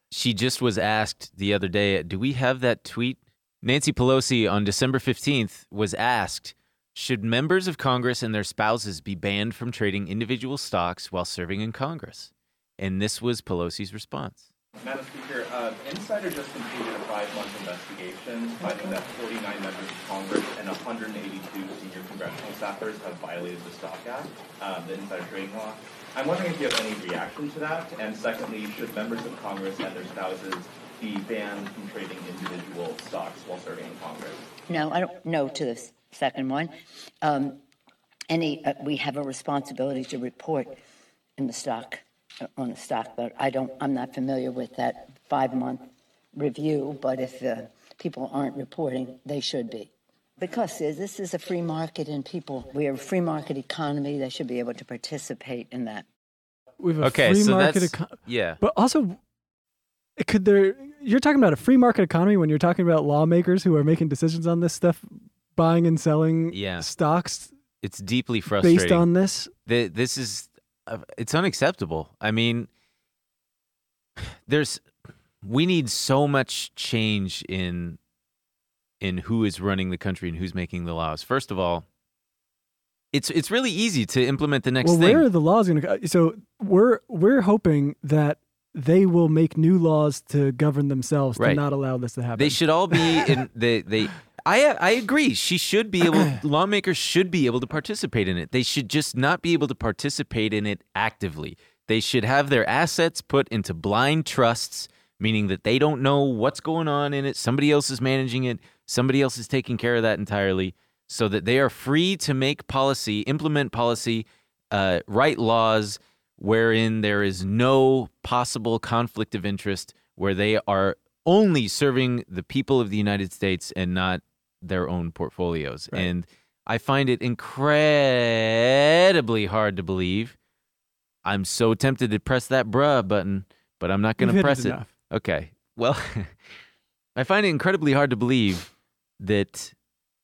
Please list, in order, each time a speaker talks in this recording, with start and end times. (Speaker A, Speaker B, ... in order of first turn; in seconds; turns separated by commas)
Speaker A: 0.1-14.5, Speaker B: 14.8-34.5, Speaker C: 34.7-37.6, Speaker C: 38.3-40.8, Speaker C: 41.4-42.0, Speaker C: 42.6-56.0, Speaker D: 56.8-59.2, Speaker A: 57.0-58.6, Speaker D: 60.2-67.5, Speaker A: 66.5-66.9, Speaker A: 67.8-69.1, Speaker D: 68.6-69.5, Speaker A: 69.7-72.7, Speaker A: 74.2-74.8, Speaker A: 75.4-78.0, Speaker A: 79.0-81.9, Speaker A: 83.1-85.3, Speaker D: 84.8-93.3, Speaker A: 91.4-91.6, Speaker A: 92.4-130.4, Speaker A: 131.2-136.4, Speaker D: 134.2-134.9, Speaker A: 137.2-139.7